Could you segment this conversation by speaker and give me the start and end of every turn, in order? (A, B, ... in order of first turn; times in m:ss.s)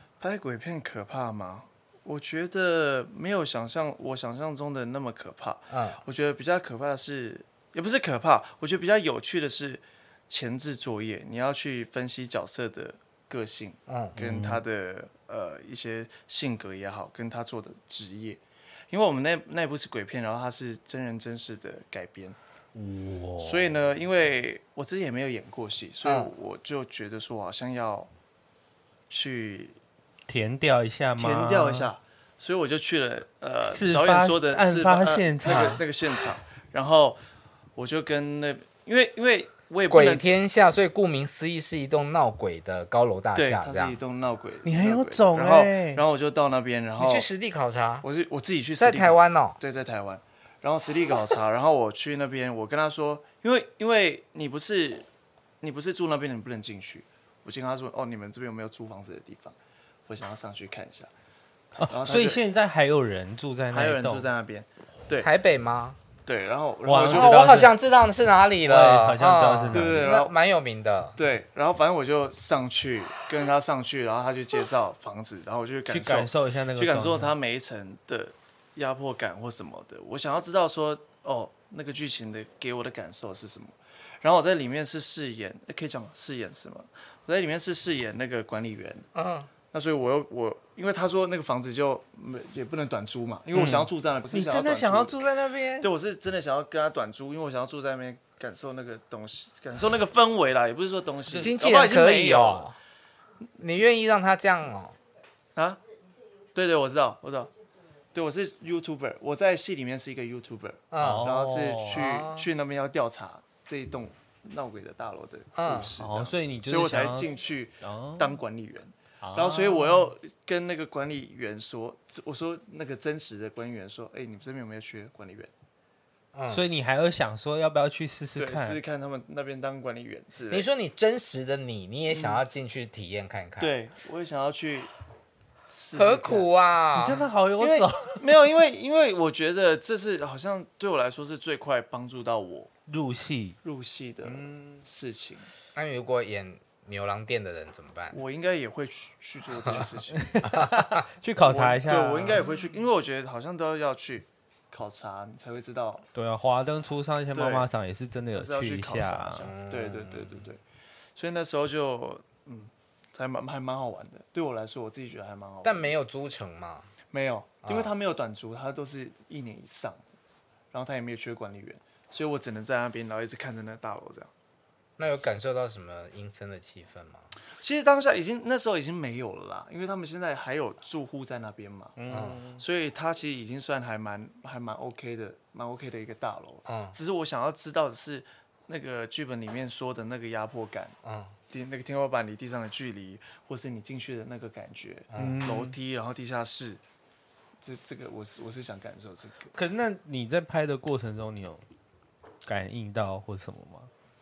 0:00.2-0:22.4 A
0:05.7-0:06.0 B
0:13.9-0:14.2 B
0:14.2-0:14.6 C
0:22.8-0:23.7 C
0:23.4-0:28.1 A
0:26.0-0:26.3 B
0:29.1-0:29.8 A
0:30.3-0:31.9 C
0:31.2-0:37.2 A
0:33.6-0:35.8 C
0:35.5-0:35.8 B
0:37.8-0:40.4 A
0:39.9-0:44.0 B
0:43.4-0:47.3 A
0:44.6-0:46.0 C
0:47.0-0:48.1 B
0:48.0-0:55.1 A
0:48.8-0:49.6 B
0:55.6-0:59.6 A
1:00.1-1:01.1 A
1:01.7-1:02.4 A
1:01.8-1:04.3 C
1:03.7-1:05.3 A
1:05.2-1:06.0 B
1:06.2-1:07.5 A
1:06.8-1:07.7 C
1:07.1-1:11.2 B
1:08.6-1:10.0 C
1:09.7-1:10.3 A
1:11.2-1:29.1 A
1:15.9-1:17.3 C
1:29.2-1:29.5 B
1:29.7-1:35.3 A
1:33.5-1:35.9 C
1:35.8-1:42.7 A
1:41.3-1:41.5 C
1:41.4-1:42.8 B
1:43.6-1:45.0 B
1:45.6-1:45.8 A
1:46.5-1:47.5 A
1:48.1-2:05.5 A
1:50.9-1:51.3 B
1:51.0-1:52.0 C
1:51.9-1:52.5 B
1:55.6-1:55.9 B
1:56.0-1:58.4 C
1:59.2-2:00.0 C
2:06.3-2:06.6 B
2:06.5-2:08.8 C
2:08.4-2:10.7 A
2:10.5-2:13.8 B
2:12.1-2:12.4 A
2:13.6-2:14.9 A
2:15.7-2:16.5 A
2:16.0-2:17.3 B
2:17.0-2:18.3 C
2:17.6-2:22.7 A
2:22.9-2:23.6 C
2:23.6-2:25.5 A
2:24.2-2:24.8 C
2:25.8-2:28.2 B
2:28.1-2:30.4 A
2:30.1-2:32.5 C
2:30.5-2:31.0 B
2:31.5-2:36.1 A
2:36.2-2:39.5 C
2:37.3-2:37.7 A
2:38.3-2:40.6 A
2:39.4-2:40.5 B
2:41.2-2:45.9 A
2:45.6-2:46.9 B
2:47.1-2:50.1 A
2:47.6-2:47.9 B
2:50.7-2:54.3 A
2:55.0-2:57.3 B
2:57.6-3:11.0 A
3:02.0-3:02.6 C
3:02.1-3:02.4 B
3:06.7-3:07.0 B
3:11.0-3:11.4 B
3:11.5-3:16.8 A
3:15.1-3:15.4 B
3:15.2-3:15.7 C
3:17.6-3:19.5 A
3:19.5-3:21.6 C
3:22.4-3:23.9 C